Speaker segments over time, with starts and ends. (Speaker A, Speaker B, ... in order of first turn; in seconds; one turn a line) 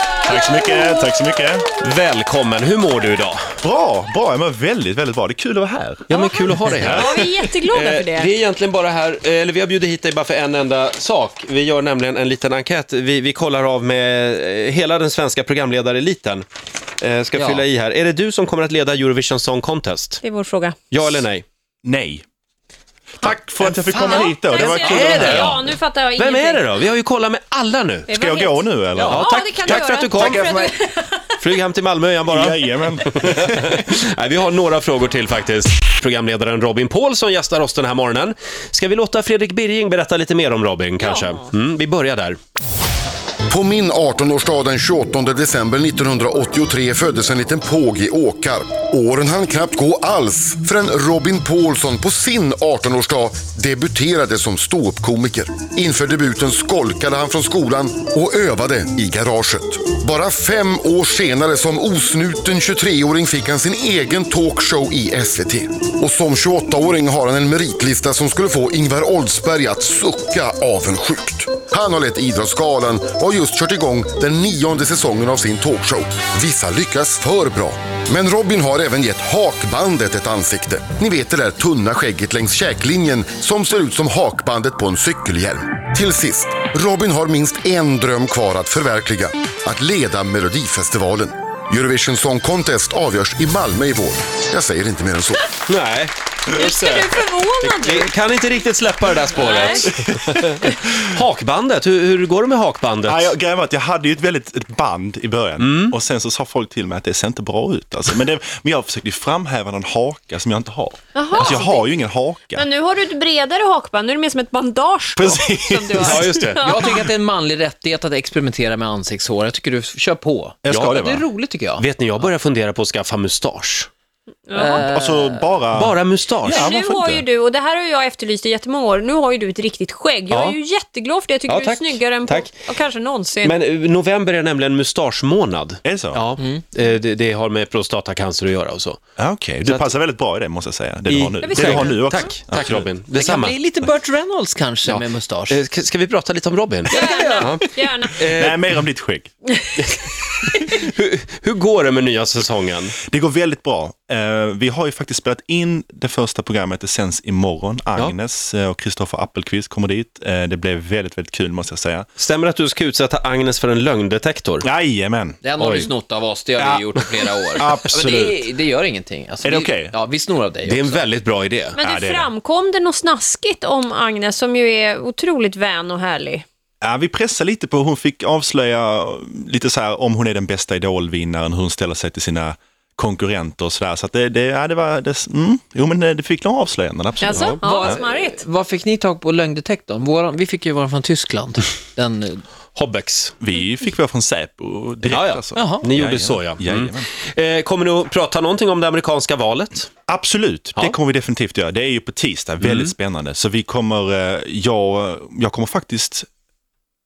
Speaker A: 0.2-1.7
Speaker B: 0.5-0.8
Speaker C: 1.8-3.4
Speaker A: 3.6-7.3
Speaker C: 6.1-16.4
Speaker B: 6.9-8.3
Speaker C: 17.0-20.2
Speaker D: 17.3-17.6
Speaker B: 20.2-20.8
Speaker C: 20.9-21.4
Speaker A: 21.9-22.2
Speaker A: 23.2-25.6
Speaker D: 23.2-24.1
Speaker B: 24.0-26.7
Speaker C: 24.5-25.6
Speaker D: 24.9-25.5
Speaker C: 26.2-28.1
Speaker B: 28.1-31.3
Speaker A: 28.1-30.8
Speaker C: 29.1-30.4
Speaker C: 31.4-42.4
Speaker A: 32.3-33.7
Speaker B: 41.0-41.5
Speaker E: 43.5-95.5
Speaker C: 95.7-103.3
Speaker B: 96.5-98.1
Speaker B: 99.3-99.9
Speaker A: 100.1-100.7
Speaker A: 103.0-112.7
Speaker C: 105.6-106.0
Speaker B: 111.1-111.8
Speaker B: 112.5-116.9
Speaker A: 115.2-117.1
Speaker C: 116.0-116.6
Speaker D: 116.7-121.8
Speaker A: 120.6-121.3
Speaker C: 121.8-123.9
Speaker B: 124.5-124.9
Speaker D: 124.5-125.5
Speaker A: 124.8-127.2
Speaker C: 125.7-126.7
Speaker B: 126.5-133.6
Speaker C: 130.3-130.6
Speaker C: 131.5-132.5
Speaker C: 133.4-139.0
Speaker A: 135.8-136.2
Speaker D: 136.4-136.6
Speaker A: 139.2-142.9
Speaker C: 139.6-139.9
Speaker C: 141.1-143.6
Speaker B: 141.4-142.3
Speaker D: 143.2-145.6
Speaker C: 144.9-148.6
Speaker D: 146.9-147.5
Speaker B: 146.9-148.2
Speaker A: 148.2-149.3
Speaker C: 149.8-153.0
Speaker A: 153.0-162.1
Speaker C: 162.2-164.7
Speaker A: 164.6-165.4
Speaker D: 165.4-171.1
Speaker C: 165.6-165.9
Speaker A: 166.6-166.9
Speaker A: 167.6-168.5
Speaker A: 169.4-169.9
Speaker C: 170.7-171.8
Speaker B: 171.8-176.4
Speaker A: 171.8-172.3
Speaker A: 176.8-187.9
Speaker B: 187.2-188.4
Speaker C: 187.3-187.6
Speaker D: 187.6-192.4
Speaker C: 192.8-193.3
Speaker A: 193.4-197.1
Speaker C: 195.1-199.9
Speaker D: 195.1-195.9
Speaker A: 200.1-206.3
Speaker C: 202.6-202.9